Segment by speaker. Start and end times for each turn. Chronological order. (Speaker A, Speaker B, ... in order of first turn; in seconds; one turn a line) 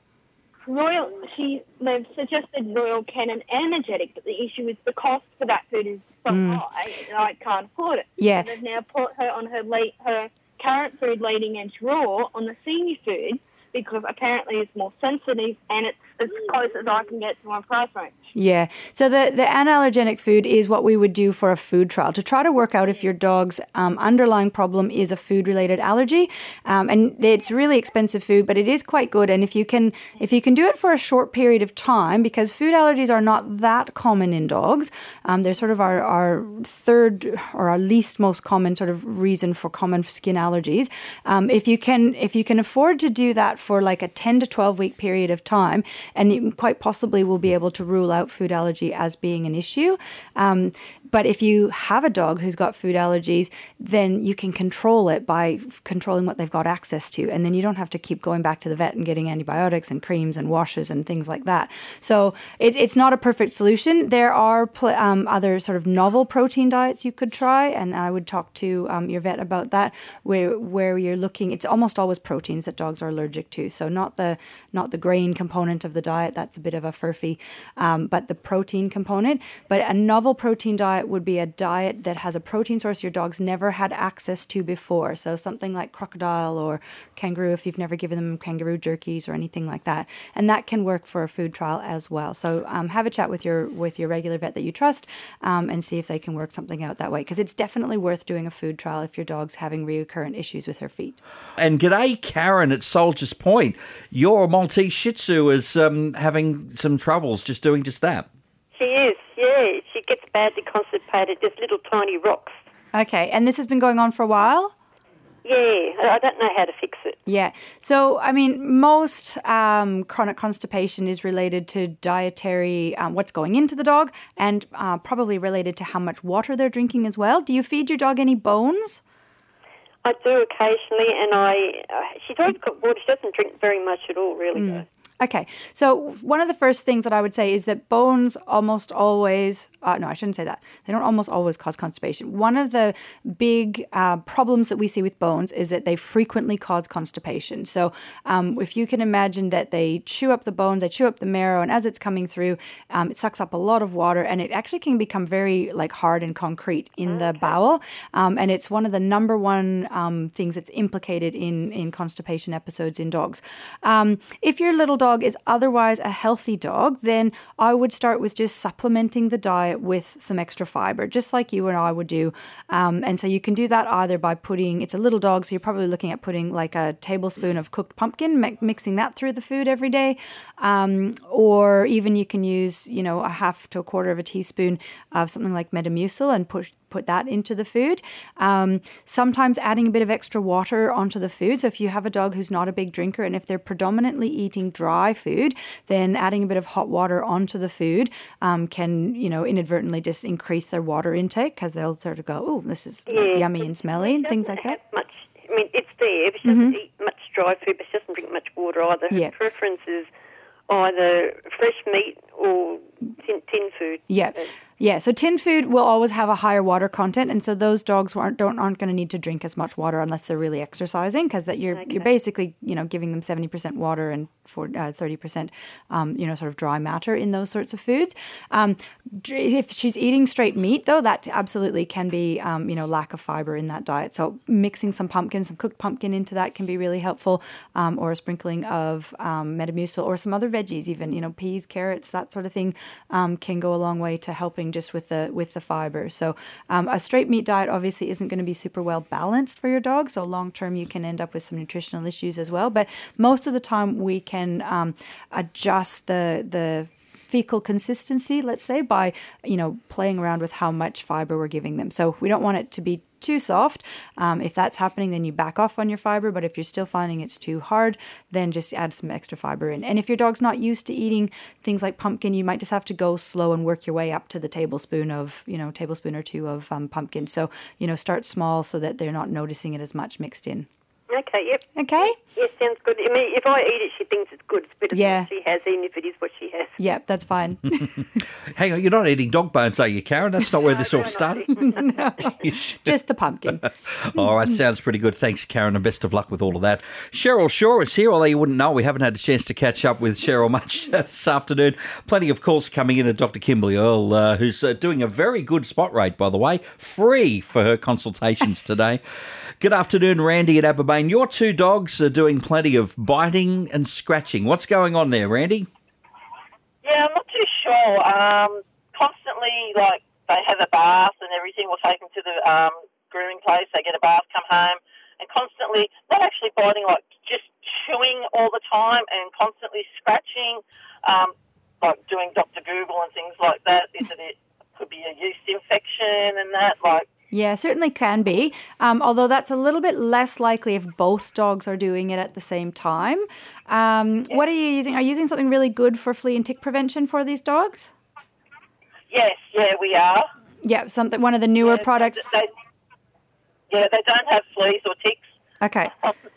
Speaker A: 0.6-18.2
Speaker B: 6.3-6.6
Speaker B: 8.2-8.5
Speaker B: 18.3-101.2
Speaker C: 101.6-108.3
Speaker D: 108.7-112.6
Speaker B: 112.9-114.7
Speaker D: 115.4-117.2
Speaker B: 117.2-129.0
Speaker D: 130.0-134.8
Speaker B: 134.5-204.8
Speaker D: 203.1-210.1
Speaker B: 206.4-206.8
Speaker B: 209.1-209.3
Speaker D: 210.7-214.5
Speaker B: 214.1-280.7
Speaker D: 281.1-286.8
Speaker B: 281.8-282.1
Speaker B: 284.9-285.3
Speaker B: 286.8-288.2
Speaker C: 288.5-291.5
Speaker D: 290.6-291.9
Speaker B: 291.6-293.6
Speaker C: 292.3-292.9
Speaker C: 293.5-309.0
Speaker C: 309.6-315.7
Speaker E: 316.8-337.1
Speaker B: 337.3-347.9
Speaker E: 349.1-350.3
Speaker B: 350.6-352.3
Speaker E: 351.6-352.5
Speaker E: 353.7-355.2
Speaker B: 355.6-355.9